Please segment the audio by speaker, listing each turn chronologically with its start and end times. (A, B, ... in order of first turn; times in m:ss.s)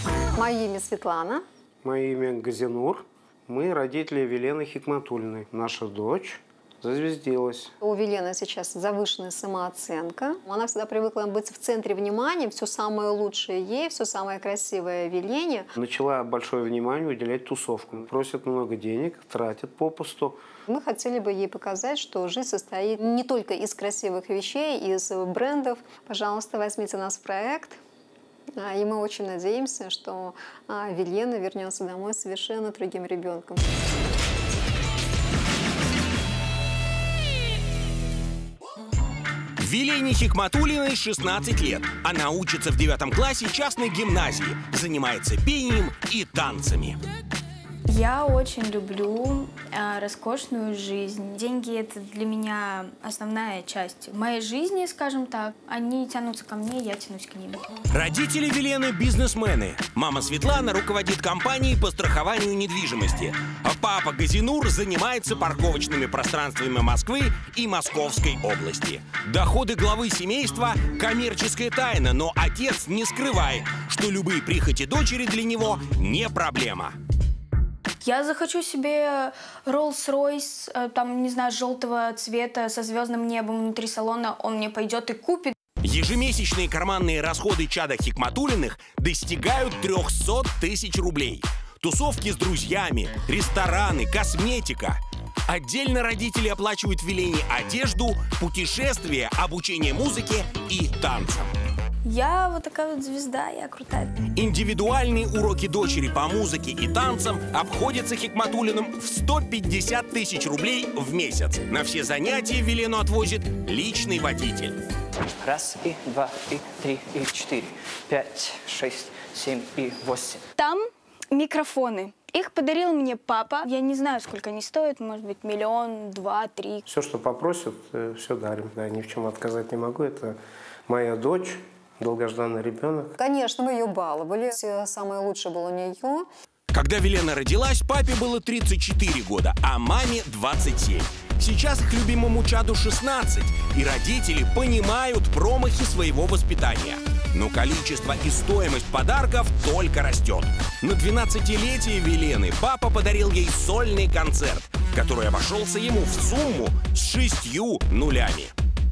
0:00.3-0:01.4 A
0:01.8-0:07.7 B
0:07.8-0:15.7 A
0:15.8-0:20.4 B
0:20.7-0:27.8 A
0:28.6-0:33.6 A
0:39.6-0:47.0 C
0:47.9-0:57.7 D
0:57.9-1:17.0 C
1:18.0-1:25.5 D
1:25.8-1:41.5 C
1:42.0-1:44.1 D
1:44.3-1:54.8 C
1:55.4-2:00.4 E
2:00.6-2:06.8 D
2:06.9-2:13.2 B
2:13.2-2:16.3 A
2:16.7-2:38.5 C